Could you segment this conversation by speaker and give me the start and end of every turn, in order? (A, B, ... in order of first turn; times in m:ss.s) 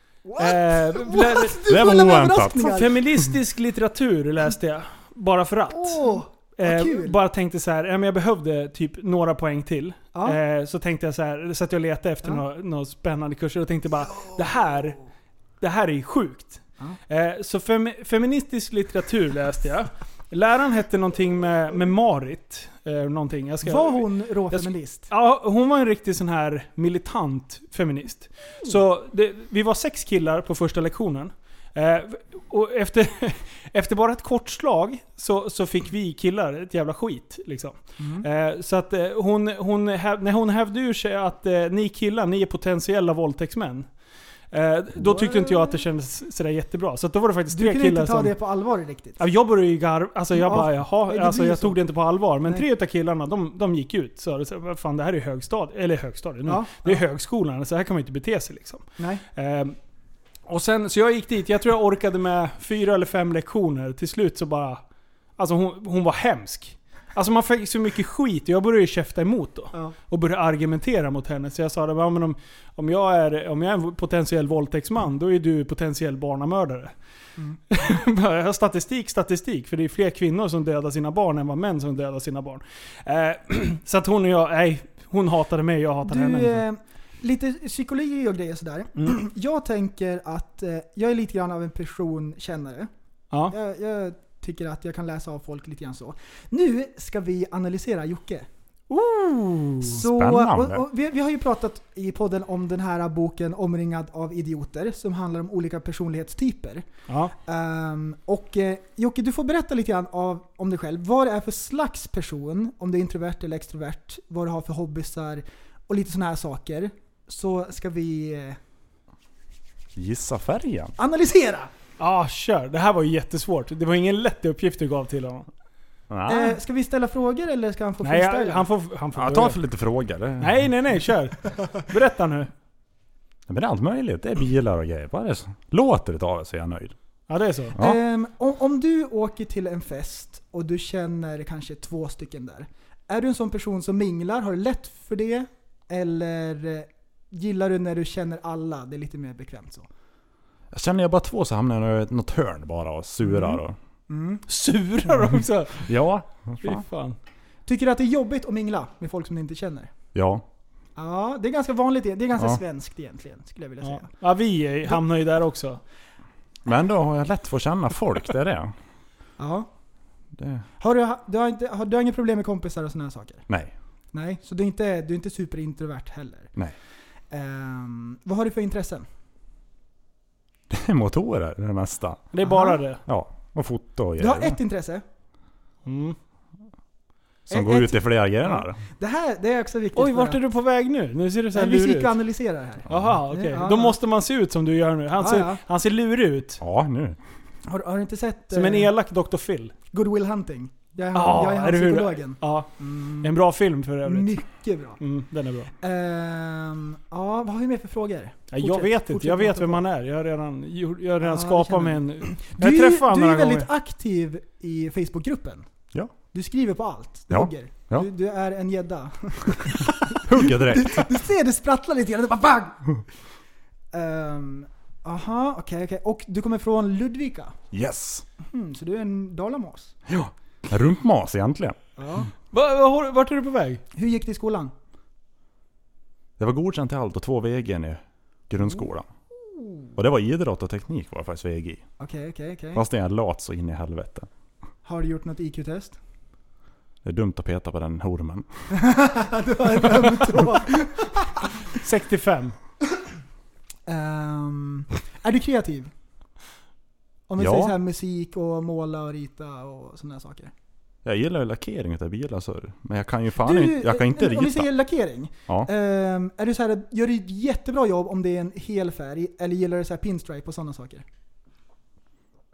0:00.2-0:02.9 A
0:00.4-0:01.6 B
0:01.6-0:02.9 C
0:02.6-0:06.0 B
0:05.7-0:07.2 A
0:06.6-0:15.0 B
0:10.1-0:10.4 A
0:15.6-0:43.9 B
0:23.6-0:25.1 A
0:38.0-0:38.2 A
0:44.5-0:48.3 B
0:45.0-0:45.8 A
0:47.5-0:49.2 A
0:49.2-0:59.8 B
0:50.3-0:51.8 A
0:56.4-0:57.0 A
0:59.0-0:59.2 A
1:00.5-1:04.8 B
1:05.4-1:16.9 B
1:17.7-1:26.6 B
1:26.0-1:32.9 A
1:33.5-1:38.5 A
1:38.9-1:39.9 B
1:39.8-1:46.8 A
1:39.9-1:40.8 C
1:47.4-1:58.6 A
2:00.0-2:00.9 C
2:01.0-2:01.7 A
2:02.0-2:05.5 B
2:06.1-2:06.6 C
2:06.3-2:08.6 A
2:08.0-2:09.6 B
2:09.1-2:10.7 C
2:10.4-2:12.5 B
2:13.5-2:16.9 C
2:17.3-2:17.8 B
2:17.8-2:29.9 A
2:30.7-2:33.8 C
2:33.2-2:34.4 A
2:34.5-2:35.8 B
2:35.8-2:36.8 C
2:36.6-2:37.2 B
2:37.6-2:39.9 A
2:40.1-2:40.4 C
2:41.0-2:44.1 A
2:43.8-2:45.8 B
2:46.6-2:48.7 C
2:49.4-2:49.7 A
2:50.3-2:50.6 C
2:50.8-2:53.4 A
2:54.1-2:56.5 A
2:57.3-2:59.0 A
3:00.7-3:02.3 C
3:02.3-3:03.0 B
3:02.4-3:02.8 A
3:03.0-3:04.6 C
3:04.2-3:05.0 A
3:05.8-3:06.2 B
3:07.5-3:08.8 C
3:07.5-3:10.4 A
3:09.9-3:12.2 B
3:11.5-3:14.0 A
3:12.9-3:16.6 B
3:15.2-3:15.6 A
3:16.6-3:17.2 C
3:17.7-3:18.9 A
3:18.5-3:19.7 B
3:19.9-3:23.3 A
3:21.1-3:22.7 B
3:23.2-3:24.3 B
3:24.0-3:25.0 A
3:25.0-3:25.7 B
3:25.8-3:29.8 A
3:28.5-3:33.7 B
3:31.2-3:35.7 A
3:36.3-3:43.0 A
3:37.3-3:38.1 C
3:40.1-3:41.1 C
3:43.9-3:47.6 A
3:47.7-3:48.2 C
3:48.4-3:49.9 A
3:50.1-3:51.8 C
3:52.0-3:52.3 A
3:52.5-3:53.8 B
3:54.0-3:54.7 A
3:56.4-3:59.1 C
3:59.6-3:59.9 A
4:00.0-4:01.8 C
4:02.0-4:02.8 A
4:02.7-4:04.3 C
4:04.8-4:06.0 A
4:07.0-4:08.4 C
4:08.7-4:11.5 A
4:11.7-4:12.5 B
4:13.8-4:15.9 A
4:17.3-4:20.5 A
4:17.4-4:17.8 C
4:21.0-4:24.7 C
4:23.4-4:31.0 A